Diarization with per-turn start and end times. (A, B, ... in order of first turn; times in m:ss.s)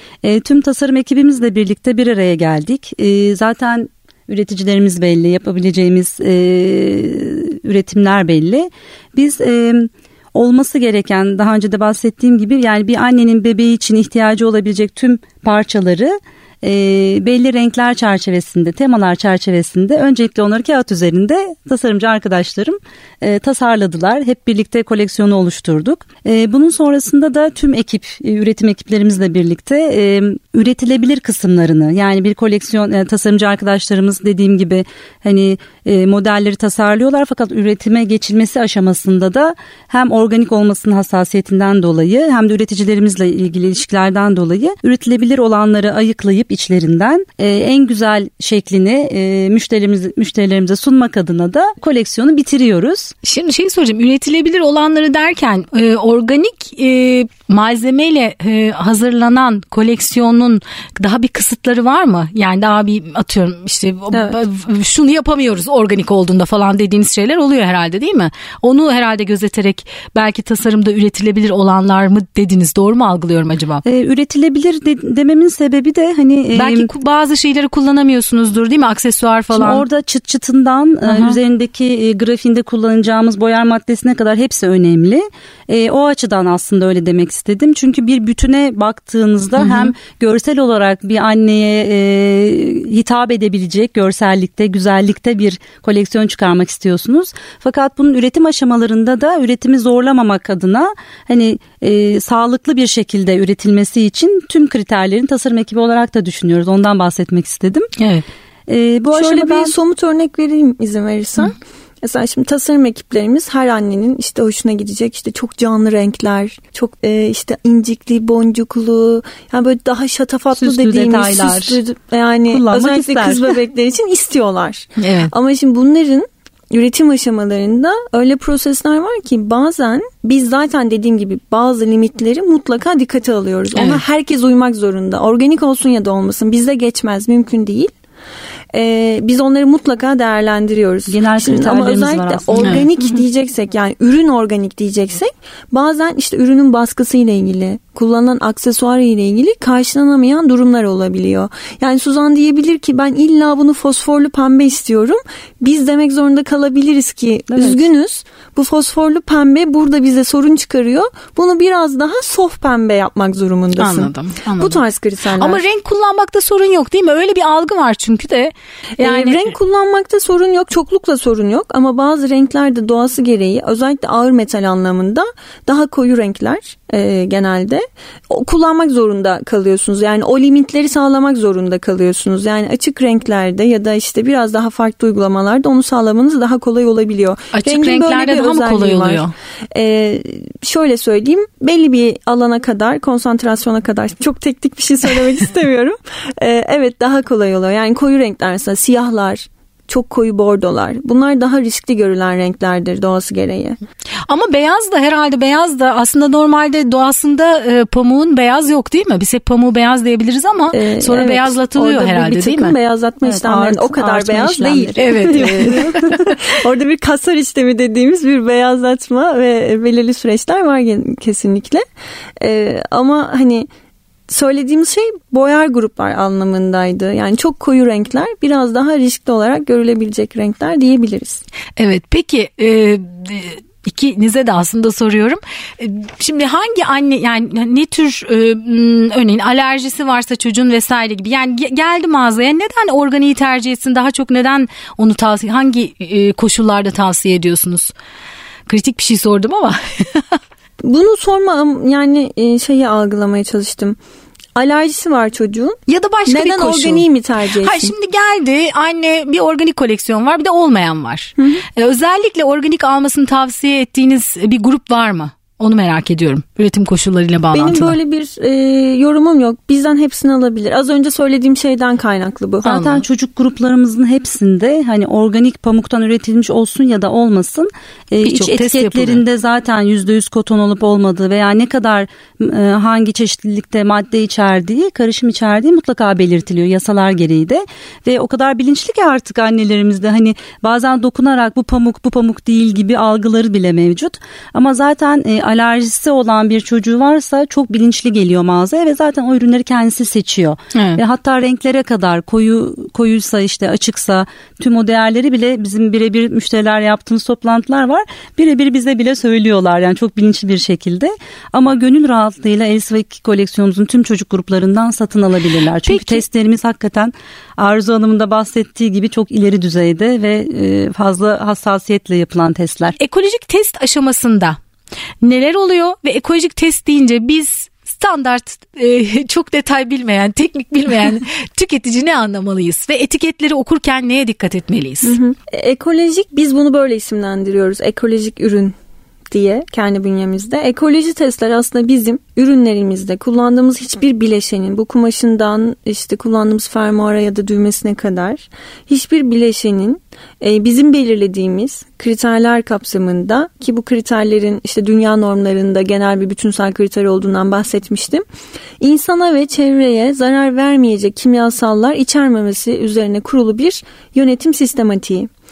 0:00.2-0:53.1 A
0:53.2-1:13.8 B
1:13.8-1:16.9 A
1:16.5-1:19.8 B
1:19.5-1:47.9 A
1:21.0-1:21.4 B
1:29.6-1:30.0 B
1:48.0-1:48.2 B
1:48.7-1:49.7 A
1:49.1-2:17.9 C
2:00.5-2:01.8 A
2:02.5-2:03.5 A
2:05.0-2:05.3 B
2:13.8-2:14.0 B
2:18.7-2:45.6 C
2:21.1-2:22.9 A
2:22.6-2:22.9 B
2:37.5-2:37.8 A
2:43.8-2:44.8 B
2:45.4-2:49.5 B
2:49.0-3:23.8 C
3:07.5-3:09.3 B
3:24.3-3:32.8 B
3:30.7-3:41.8 C
3:33.2-3:36.2 A
3:35.0-3:36.5 B
3:42.4-3:43.7 C
3:44.3-3:51.4 C
3:51.8-4:07.9 B
4:08.7-4:10.4 B
4:10.8-4:14.0 C
4:14.6-4:17.9 C
4:15.9-4:17.0 B
4:17.6-4:28.0 B
4:21.4-4:21.6 C
4:27.5-4:32.8 C
4:32.6-5:23.0 A
4:32.6-4:33.0 B
4:38.2-4:39.2 B
5:00.7-5:01.0 B
5:15.9-5:16.2 B
5:23.0-5:24.6 B
5:25.2-5:35.2 B
5:35.0-5:38.8 C
5:39.3-5:58.2 C
5:58.8-6:05.3 C